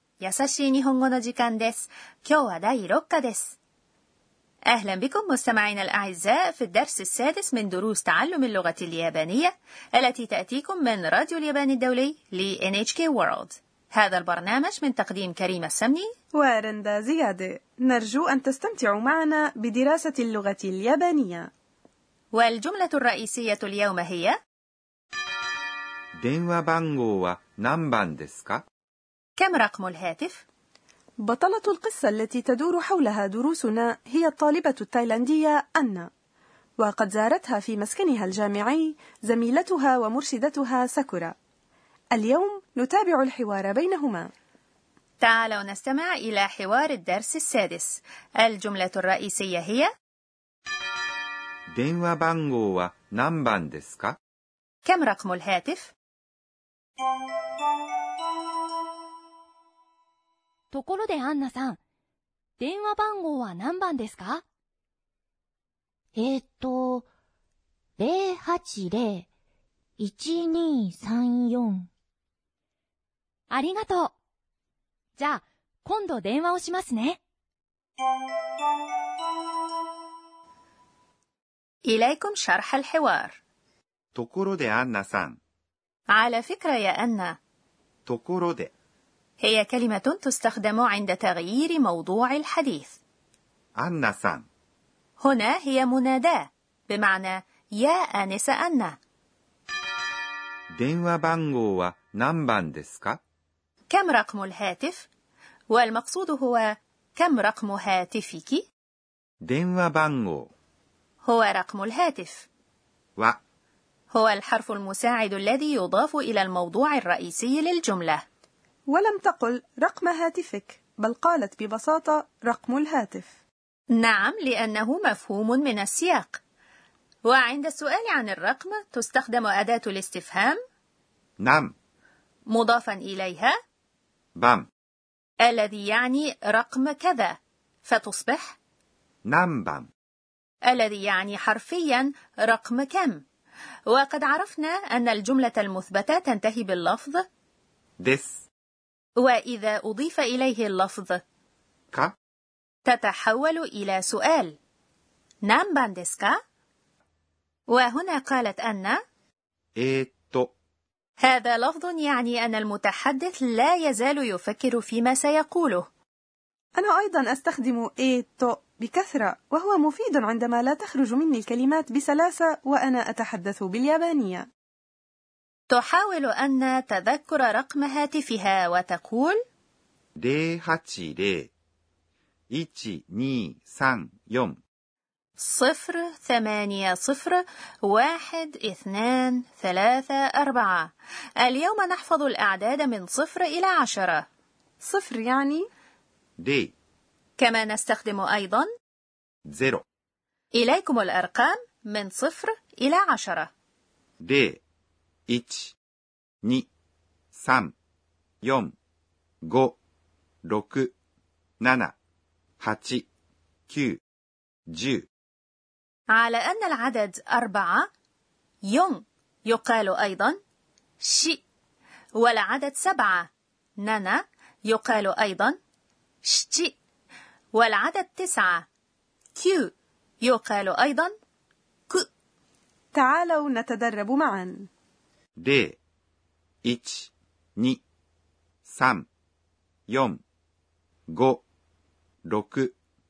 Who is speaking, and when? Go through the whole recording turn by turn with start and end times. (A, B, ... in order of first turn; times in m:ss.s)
0:00.2-0:03.6 A
0:04.7-0:16.1 A
0:16.3-0:21.5 B
0:22.3-0:24.4 A
0:26.2-0:28.6 C
0:29.4-0:30.4 A
0:31.2-0:36.1 B
0:36.8-0:41.3 B
0:42.1-0:44.3 B
0:45.2-0:49.9 A
0:51.7-0:54.2 C
0:54.8-0:55.9 A
1:00.7-1:01.8 D
1:02.6-1:04.4 D
1:06.2-1:07.1 E
1:08.0-1:09.3 E
1:10.0-1:11.9 E
1:13.5-1:14.1 D
1:15.2-1:17.2 D
1:21.9-1:23.4 A
1:24.2-1:25.4 C
1:26.1-1:27.4 A
1:28.1-1:28.7 C
1:29.4-1:33.0 A
1:33.8-1:34.5 C
1:35.2-1:39.0 A
1:40.8-1:43.2 C
1:43.9-1:45.1 A
1:45.7-1:48.6 A
1:49.4-1:50.5 C
1:51.2-1:52.5 A
1:54.1-1:58.2 A
1:58.9-2:03.3 B
2:04.0-2:06.4 A
2:07.3-2:10.6 A
2:11.4-2:11.7 C
2:12.5-2:13.5 A
2:14.4-2:14.7 C
2:15.4-2:18.6 A
2:19.3-2:19.9 C
2:20.7-2:23.2 A
2:23.9-2:27.2 A
2:28.0-2:28.5 C
2:29.2-2:31.2 A
2:32.8-2:34.6 A
2:35.4-2:36.4 A
2:37.7-2:39.0 A
2:39.8-2:40.5 C
2:41.2-2:45.8 A
2:46.8-2:54.5 B
2:55.7-2:59.4 A
3:00.2-3:01.5 C
3:02.5-3:04.6 C
3:05.4-3:10.9 A
3:11.4-3:14.2 A
3:14.8-3:15.7 B
3:16.4-3:16.7 C
3:17.4-3:18.7 A
3:19.5-3:19.8 C
3:20.5-3:23.5 A
3:24.2-3:24.6 C
3:25.3-3:25.8 C
3:26.4-3:26.7 C
3:27.3-3:27.7 C
3:28.4-3:28.8 C
3:29.4-3:29.8 C
3:30.4-3:31.0 C
3:31.6-3:32.0 C
3:32.6-3:33.1 C
3:33.7-3:34.0 C
3:34.7-3:35.1 C
3:36.1-3:37.9 A
3:38.7-3:40.4 A
3:41.0-3:41.4 A
3:42.2-3:43.3 A
3:43.8-3:45.6 A
3:46.2-3:46.7 A
3:47.5-3:48.7 A
3:49.4-3:51.1 A
3:52.9-3:54.7 B
3:55.4-3:55.8 C
3:56.6-3:57.8 C
3:58.6-3:59.1 C
3:59.9-4:00.2 C
4:01.1-4:01.4 C
4:02.3-4:02.8 C